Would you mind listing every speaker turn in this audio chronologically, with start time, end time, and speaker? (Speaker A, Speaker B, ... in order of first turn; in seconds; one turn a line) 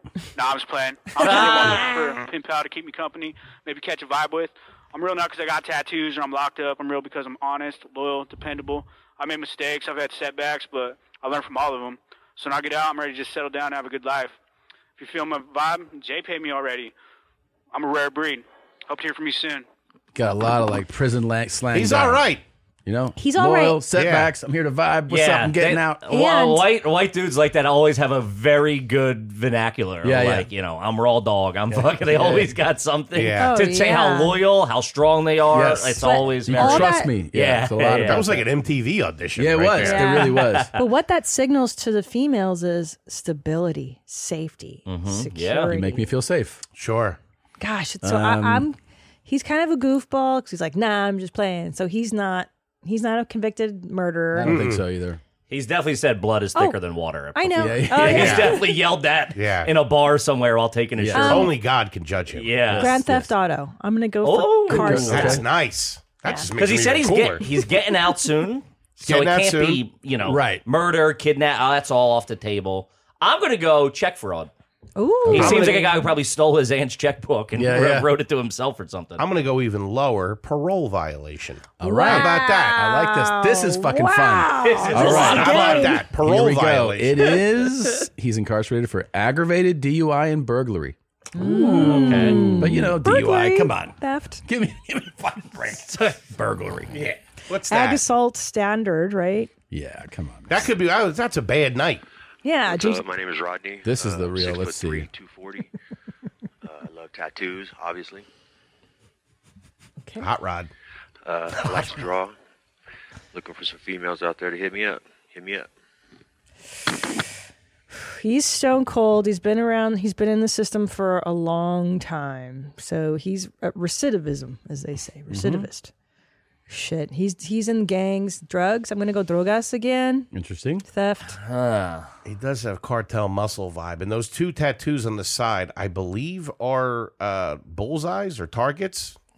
Speaker A: 0.3-14.3
Speaker B: 1.2-2.1
Speaker A: 15.0-16.9
Speaker A: 17.7-19.6
Speaker C: 20.1-22.2
Speaker D: 21.7-22.4
Speaker C: 22.9-26.0
Speaker E: 23.2-23.8
Speaker D: 23.9-24.3
Speaker B: 25.1-38.3
Speaker E: 26.1-26.6
Speaker C: 30.0-30.5
Speaker C: 31.7-32.6
Speaker D: 33.1-33.5
Speaker E: 33.4-34.4
Speaker C: 35.5-38.5
Speaker E: 36.0-37.1
Speaker D: 38.0-40.2
Speaker C: 39.4-40.7
Speaker E: 39.8-46.1
Speaker B: 40.2-40.7
Speaker B: 44.9-45.7
Speaker C: 45.7-46.6
Speaker D: 46.8-47.2
Speaker E: 47.6-54.6
Speaker C: 48.0-48.7
Speaker C: 54.3-55.2
Speaker D: 54.5-54.9
Speaker B: 55.5-61.4
Speaker E: 57.3-58.8
Speaker C: 57.5-58.3
Speaker D: 58.0-58.8
Speaker D: 59.3-59.7
Speaker C: 61.0-61.5
Speaker E: 61.1-61.6
Speaker D: 61.1-62.6
Speaker B: 62.3-63.0
Speaker C: 62.6-63.3
Speaker E: 62.8-65.4
Speaker B: 64.2-65.2
Speaker C: 64.7-65.4
Speaker D: 64.9-67.7
Speaker E: 66.2-66.5
Speaker B: 66.6-74.5
Speaker D: 69.0-69.9
Speaker C: 70.3-70.6
Speaker E: 75.0-76.2
Speaker C: 75.3-75.6
Speaker B: 75.3-79.2
Speaker C: 77.5-78.1
Speaker D: 79.2-82.8
Speaker C: 81.8-97.0
Speaker E: 81.8-86.1
Speaker B: 84.6-86.0
Speaker D: 85.1-87.3
Speaker E: 91.3-94.4
Speaker B: 91.8-92.7
Speaker D: 97.5-98.0
Speaker E: 97.7-99.5
Speaker C: 99.7-100.7
Speaker D: 100.5-102.0
Speaker E: 102.4-103.0
Speaker F: 102.7-105.7
Speaker C: 103.8-105.1
Speaker F: 106.6-108.2
Speaker D: 110.2-110.7
Speaker F: 111.2-112.3
Speaker F: 113.3-115.7
Speaker E: 117.9-125.9
Speaker C: 125.3-125.7
Speaker E: 126.7-130.3
Speaker C: 130.3-130.8
Speaker E: 130.8-131.4
Speaker B: 131.3-132.1
Speaker D: 132.2-139.2